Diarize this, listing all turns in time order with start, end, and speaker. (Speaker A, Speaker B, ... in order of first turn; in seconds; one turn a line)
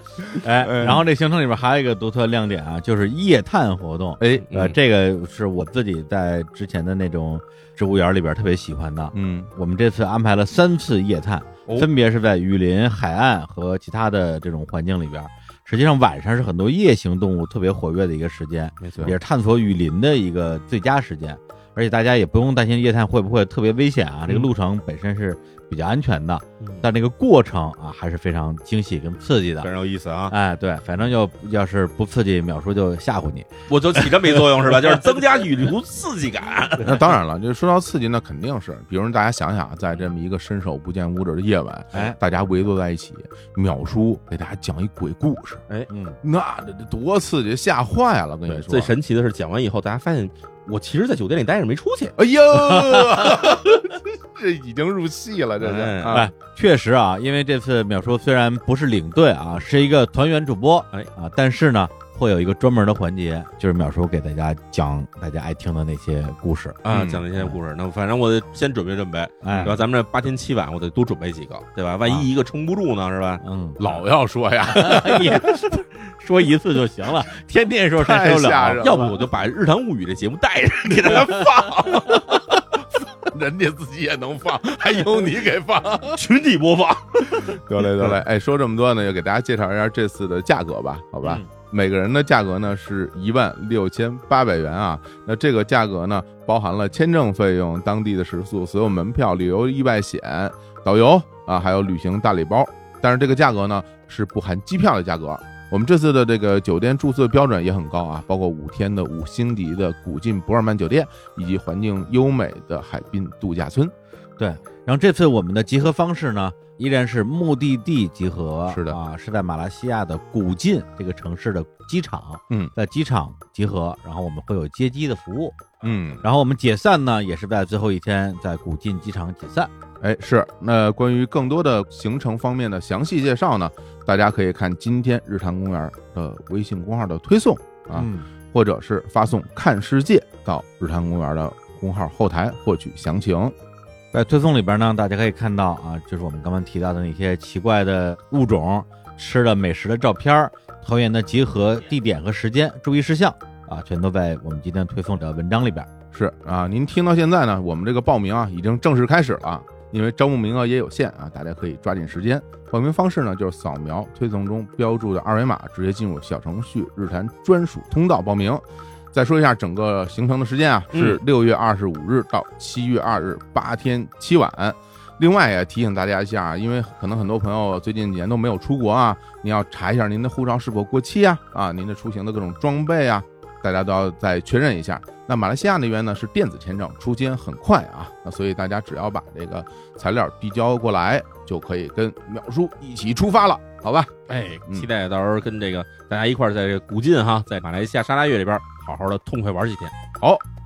Speaker A: 0.4-29.7
Speaker B: 0.6-1.0
Speaker B: 4.2-4.5
Speaker C: 4.5-4.8
Speaker B: 9.1-9.5
Speaker C: 18.8-19.1
Speaker C: 26.6-26.9
Speaker C: 29.6-30.3
Speaker A: 30.3-34.6
Speaker C: 33.7-37.0
Speaker B: 36.8-45.7
Speaker A: 45.9-46.2
Speaker B: 46.2-48.9
Speaker C: 48.7-52.1
Speaker B: 52.2-56.3
Speaker C: 55.6-56.2
Speaker A: 56.0-66.8
Speaker C: 66.8-74.0
Speaker B: 66.9-67.2
Speaker A: 69.4-69.8
Speaker B: 69.5-69.8
Speaker A: 73.4-73.8
Speaker B: 73.8-75.5
Speaker A: 74.7-79.1
Speaker B: 78.0-79.1
Speaker C: 78.8-82.2
Speaker B: 81.1-82.4
Speaker B: 83.0-86.2
Speaker C: 86.1-88.2
Speaker B: 87.3-113.9
Speaker A: 91.2-91.5
Speaker A: 114.4-129.7
Speaker B: 118.7-119.0
Speaker B: 125.8-126.2
Speaker B: 130.0-143.5
Speaker A: 137.9-138.3
Speaker A: 144.1-155.9
Speaker B: 156.1-194.1
Speaker C: 170.9-171.2
Speaker C: 194.3-199.9